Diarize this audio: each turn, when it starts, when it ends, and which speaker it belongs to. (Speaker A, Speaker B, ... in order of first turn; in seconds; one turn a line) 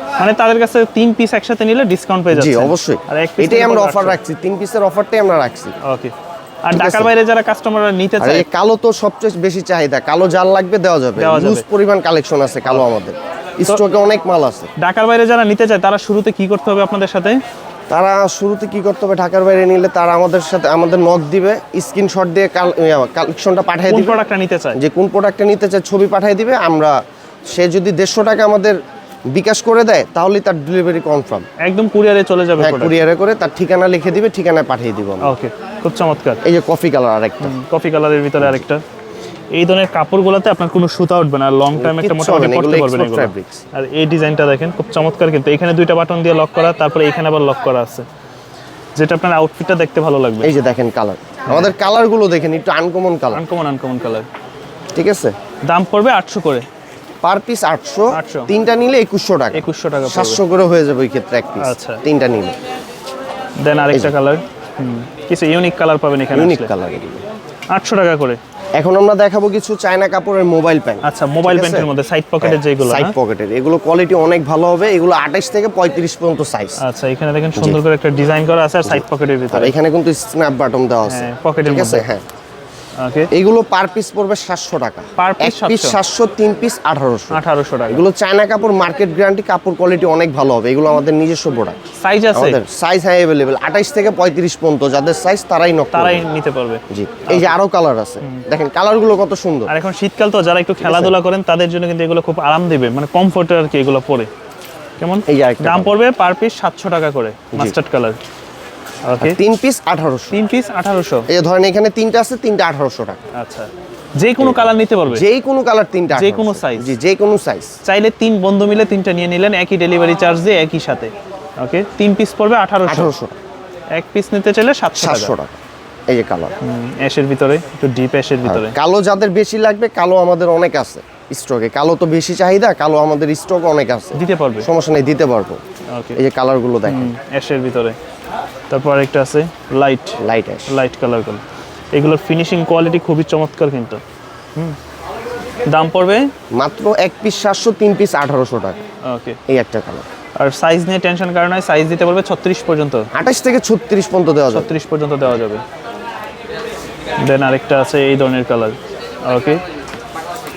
Speaker A: 0.2-4.2
Speaker B: 2.3-5.8
Speaker A: 5.8-6.1
Speaker A: 6.6-8.4
Speaker B: 6.7-7.1
Speaker B: 8.2-14.7
Speaker A: 11.2-11.6
Speaker A: 14.8-17.4
Speaker B: 17.9-24.2
Speaker A: 23.9-24.8
Speaker B: 24.7-26.9
Speaker B: 27.5-28.8
Speaker B: 29.3-31.4
Speaker A: 31.6-33.0
Speaker B: 32.6-35.3
Speaker A: 35.2-36.4
Speaker B: 36.4-37.6
Speaker A: 37.4-38.8
Speaker A: 39.5-48.0
Speaker B: 41.7-43.6
Speaker A: 49.0-50.5
Speaker B: 50.4-53.4
Speaker A: 51.5-51.7
Speaker A: 53.3-54.3
Speaker B: 54.9-55.3
Speaker A: 55.7-56.6
Speaker B: 57.2-62.5
Speaker A: 58.1-58.5
Speaker A: 59.5-60.4
Speaker A: 61.6-62.0
Speaker A: 63.6-66.7
Speaker B: 66.3-67.2
Speaker A: 67.7-68.4
Speaker B: 68.8-71.9
Speaker A: 71.0-73.1
Speaker B: 72.4-76.8
Speaker A: 76.8-79.8
Speaker B: 78.8-82.2
Speaker A: 81.0-82.0
Speaker A: 83.0-83.3
Speaker B: 83.3-91.8
Speaker A: 85.2-86.0
Speaker A: 87.3-88.0
Speaker A: 92.0-92.6
Speaker B: 92.3-96.2
Speaker A: 95.9-97.6
Speaker B: 96.9-99.7
Speaker A: 99.7-104.3
Speaker B: 100.8-101.2
Speaker A: 105.0-108.2
Speaker B: 105.3-105.9
Speaker A: 109.0-109.4
Speaker B: 109.2-110.4
Speaker A: 110.3-111.3
Speaker B: 111.3-113.2
Speaker A: 113.3-115.2
Speaker B: 114.4-117.7
Speaker A: 116.1-116.9
Speaker A: 117.8-123.1
Speaker B: 122.8-123.4
Speaker A: 123.9-125.3
Speaker B: 125.0-126.5
Speaker A: 126.6-128.7
Speaker B: 128.4-135.6
Speaker A: 134.1-134.7
Speaker A: 135.9-136.2
Speaker B: 136.1-137.1
Speaker A: 136.8-137.9
Speaker A: 138.7-144.0
Speaker B: 140.2-140.7
Speaker A: 145.7-146.3
Speaker B: 146.6-148.8
Speaker A: 149.0-149.4
Speaker B: 149.5-150.0
Speaker A: 150.4-153.1
Speaker B: 153.1-154.7
Speaker A: 154.5-155.6
Speaker A: 157.2-159.6